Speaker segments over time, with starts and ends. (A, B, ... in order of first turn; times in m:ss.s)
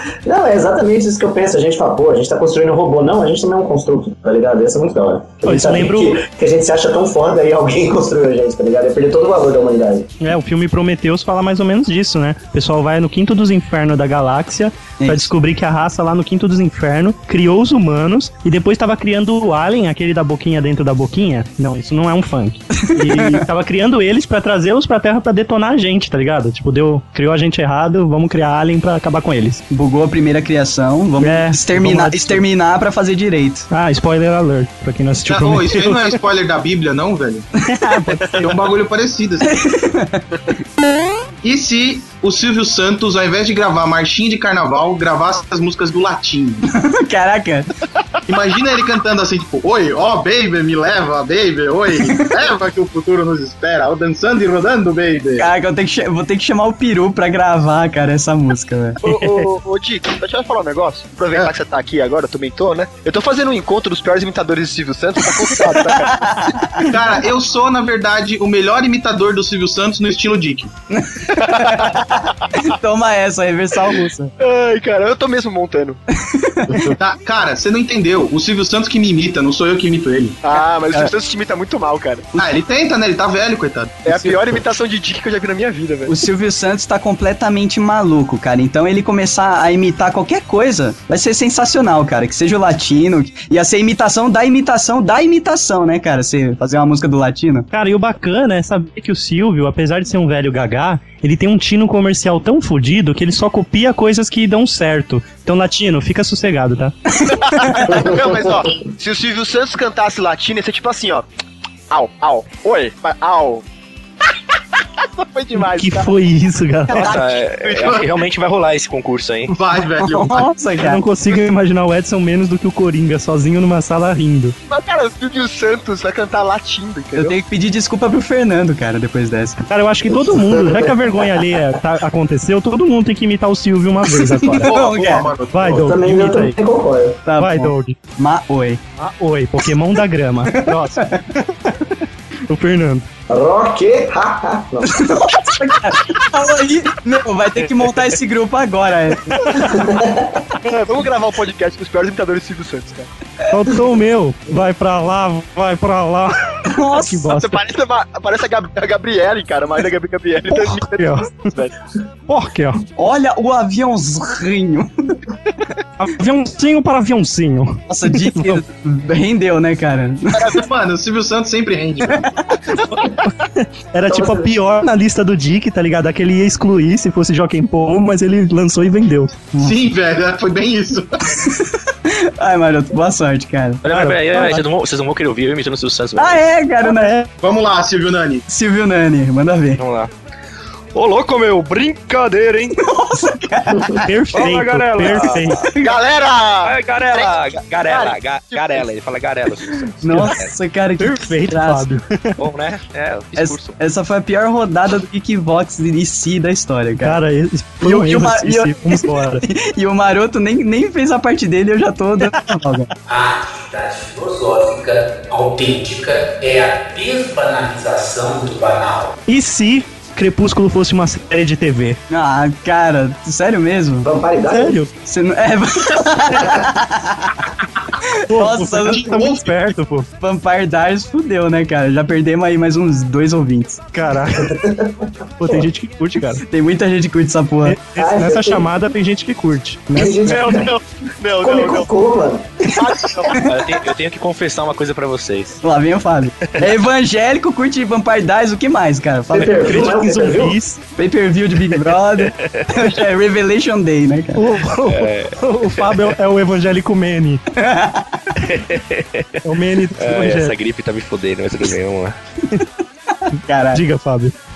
0:00.3-0:10.1 A
0:05.4-0:06.2 B
0:10.2-0:29.6 B
0:15.0-0:15.3 C
0:22.8-0:23.4 C
0:29.7-0:33.7 C
0:31.2-0:32.5 B
0:33.7-0:36.2 B
0:35.3-0:37.5 D
0:37.6-0:38.6 B
0:38.3-0:39.6 D
0:39.4-0:40.6 C
0:41.4-0:46.7 D
0:46.7-0:47.7 C
0:48.3-0:55.5 D
0:55.4-0:59.0 C
0:59.0-1:06.6 E
0:59.0-0:59.5 B
1:05.8-1:06.9 C
1:06.8-1:10.7 D
1:10.9-1:14.3 C
1:11.5-1:11.7 E
1:14.4-1:16.0 E
1:16.2-1:16.9 C
1:17.0-1:20.4 D
1:20.4-1:22.3 E
1:22.4-1:24.2 D
1:24.1-1:26.1 E
1:26.1-1:37.7 C
1:37.7-1:47.1 B
1:47.5-1:51.2 E
1:47.6-1:47.9 C
1:51.9-1:53.6 E
1:55.0-1:56.1 E
1:55.6-1:57.1 B
1:56.9-1:58.0 E
1:57.0-1:59.6 F
1:59.5-2:00.5 D
2:00.0-2:01.0 C
2:00.8-2:04.6 B
2:04.7-2:07.4 E
2:07.2-2:09.6 C
2:09.7-2:14.7 B
2:10.1-2:11.4 A
2:14.3-2:15.3 C
2:14.6-2:15.9 D
2:15.5-2:16.6 B
2:15.8-2:17.2 A
2:17.2-2:18.8 C
2:17.4-2:18.0 B
2:19.0-2:23.1 B
2:20.5-2:21.2 C
2:23.3-2:25.1 A
2:24.8-2:29.4 C
2:29.4-2:29.9 B
2:29.6-2:30.4 A
2:30.6-2:33.1 E
2:33.5-2:37.6 B
2:36.7-2:37.3 C
2:37.3-2:41.8 E
2:40.5-2:41.3 B
2:42.3-2:42.8 B
2:43.0-2:45.2 C
2:46.0-2:48.6 B
2:47.9-2:50.6 C
2:50.5-2:52.3 D
2:52.1-2:52.6 C
2:53.0-2:59.8 B
2:54.1-2:54.5 A
2:59.6-3:01.2 D
3:01.4-3:03.8 C
3:03.8-3:06.4 F
3:03.9-3:04.6 B
3:06.2-3:07.2 C
3:06.8-3:07.3 B
3:07.4-3:08.4 D
3:08.5-3:09.8 C
3:09.8-3:10.1 F
3:11.0-3:12.8 F
3:12.8-3:14.1 C
3:14.1-3:15.7 B
3:14.3-3:15.6 F
3:15.3-3:15.9 C
3:15.8-3:18.8 E
3:16.6-3:20.6 F
3:20.0-3:21.9 C
3:21.0-3:22.4 B
3:22.4-3:23.8 F
3:23.4-3:27.2 C
3:27.0-3:29.4 B
3:27.8-3:32.9 C
3:33.1-3:39.2 G
3:39.3-3:42.0 B
3:42.1-3:44.1 C
3:44.0-3:44.8 A
3:44.5-3:44.9 B
3:45.0-3:49.1 C
3:48.3-3:50.1 B
3:48.8-3:49.7 D
3:50.2-3:53.8 C
3:53.9-3:54.6 B
3:54.5-3:55.7 A
3:55.4-3:56.4 B
3:56.5-3:57.8 C
3:57.6-4:00.4 B
3:58.0-3:58.7 A
4:00.0-4:00.8 A
4:00.3-4:01.9 F
4:01.4-4:03.3 A
4:01.4-4:01.7 E
4:02.7-4:03.4 E
4:03.4-4:05.6 F
4:05.6-4:09.8 C
4:09.3-4:10.6 A
4:09.6-4:10.8 B
4:11.0-4:14.5 C
4:12.2-4:12.9 F
4:14.4-4:17.4 B
4:14.9-4:16.0 F
4:17.6-4:18.3 C
4:18.4-4:19.4 F
4:19.4-4:20.5 B
4:20.0-4:22.2 F
4:23.1-4:23.8 C
4:23.7-4:24.3 B